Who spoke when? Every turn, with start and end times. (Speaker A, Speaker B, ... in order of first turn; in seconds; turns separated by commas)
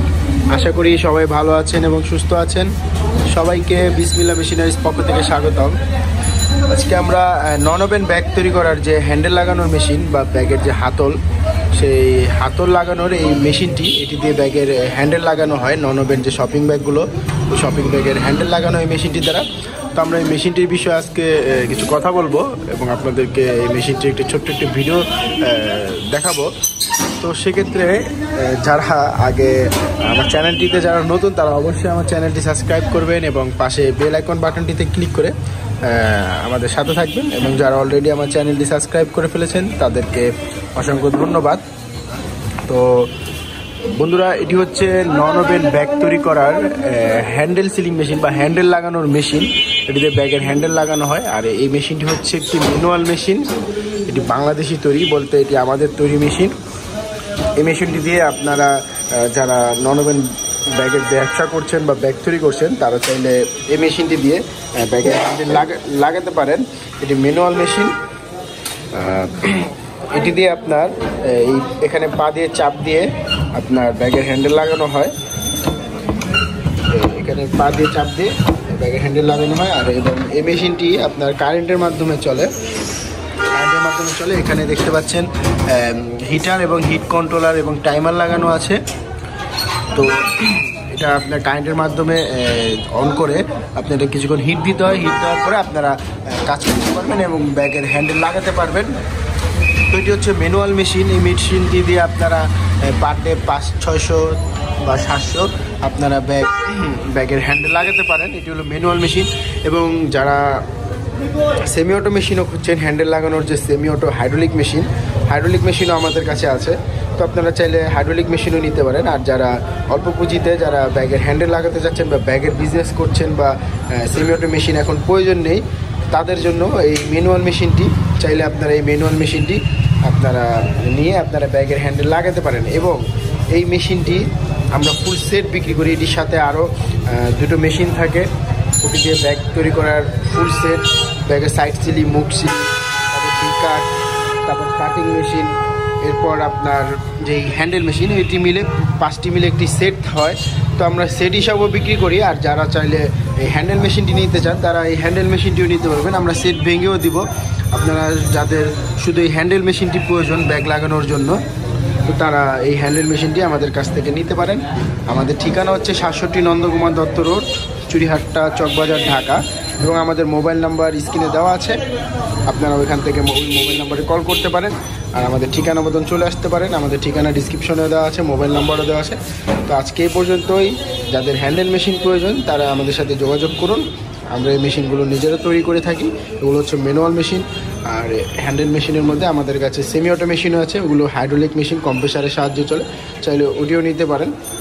Speaker A: 0.5-2.7, Speaker A: 3.3-5.8, Speaker A: 6.7-11.2, Speaker A: 11.7-26.5, Speaker A: 27.2-41.6, Speaker A: 42.7-43.1, Speaker A: 43.9-53.5, Speaker A: 54.0-56.5, Speaker A: 57.6-68.0, Speaker A: 68.9-75.1, Speaker A: 76.9-82.5, Speaker A: 83.5-88.8, Speaker A: 89.9-99.0, Speaker A: 99.9-110.7, Speaker A: 111.6-138.3, Speaker A: 138.8-143.9, Speaker A: 144.5-161.4, Speaker A: 162.1-171.8, Speaker A: 172.5-194.3